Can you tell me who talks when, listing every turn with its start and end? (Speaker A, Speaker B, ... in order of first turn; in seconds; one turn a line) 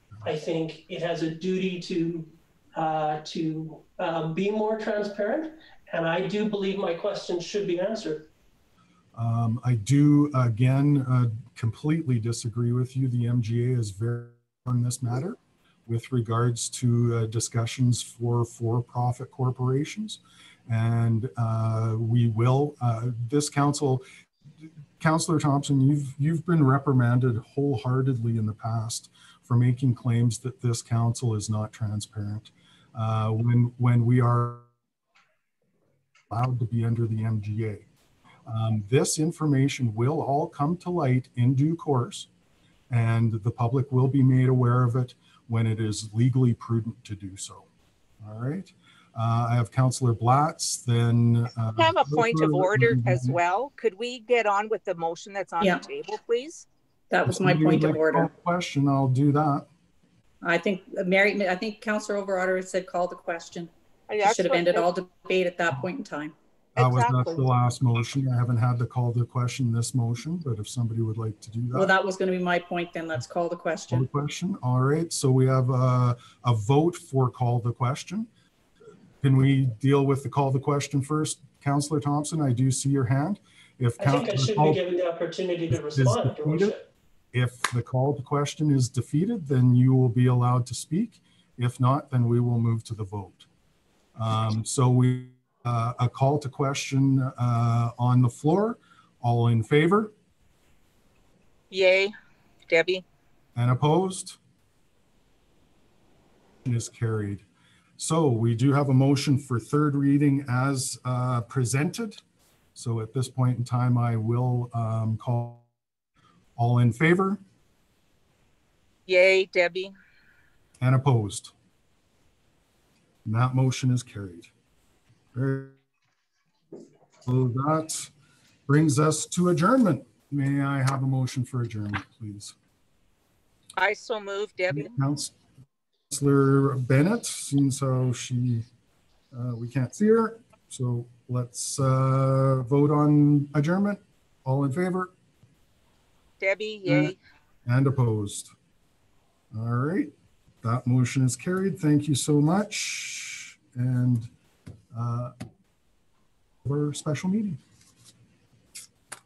Speaker A: 0.2-8.3
Speaker B: 9.1-24.0
Speaker B: 25.0-34.7
Speaker B: 36.3-37.9
Speaker B: 38.5-42.3
Speaker B: 42.9-47.6
Speaker B: 48.2-53.4
Speaker C: 51.8-56.6
Speaker D: 57.1-58.3
Speaker B: 57.2-59.7
Speaker D: 60.4-63.7
Speaker C: 64.1-64.9
Speaker D: 64.2-66.3
Speaker C: 66.8-67.4
Speaker B: 66.8-71.9
Speaker D: 71.7-74.1
Speaker B: 73.9-78.3
Speaker B: 79.2-84.8
Speaker A: 84.0-86.8
Speaker B: 85.7-86.7
Speaker B: 87.3-93.5
Speaker B: 94.2-100.1
Speaker C: 101.7-102.1
Speaker C: 102.7-103.0
Speaker B: 103.5-104.4
Speaker B: 106.6-107.4
Speaker B: 108.0-112.2
Speaker B: 112.8-115.7
Speaker B: 116.6-117.4
Speaker C: 119.1-119.9
Speaker B: 120.8-121.5
Speaker B: 123.2-124.5
Speaker B: 125.3-125.8
Speaker B: 127.2-128.1
Speaker B: 128.7-132.5
Speaker C: 133.8-134.9
Speaker B: 134.7-135.3
Speaker B: 136.1-138.6
Speaker B: 139.3-145.1
Speaker C: 146.4-147.2
Speaker B: 146.8-147.1
Speaker B: 147.7-148.5
Speaker B: 149.5-150.1
Speaker B: 150.6-154.3
Speaker B: 154.9-155.3
Speaker B: 156.6-157.6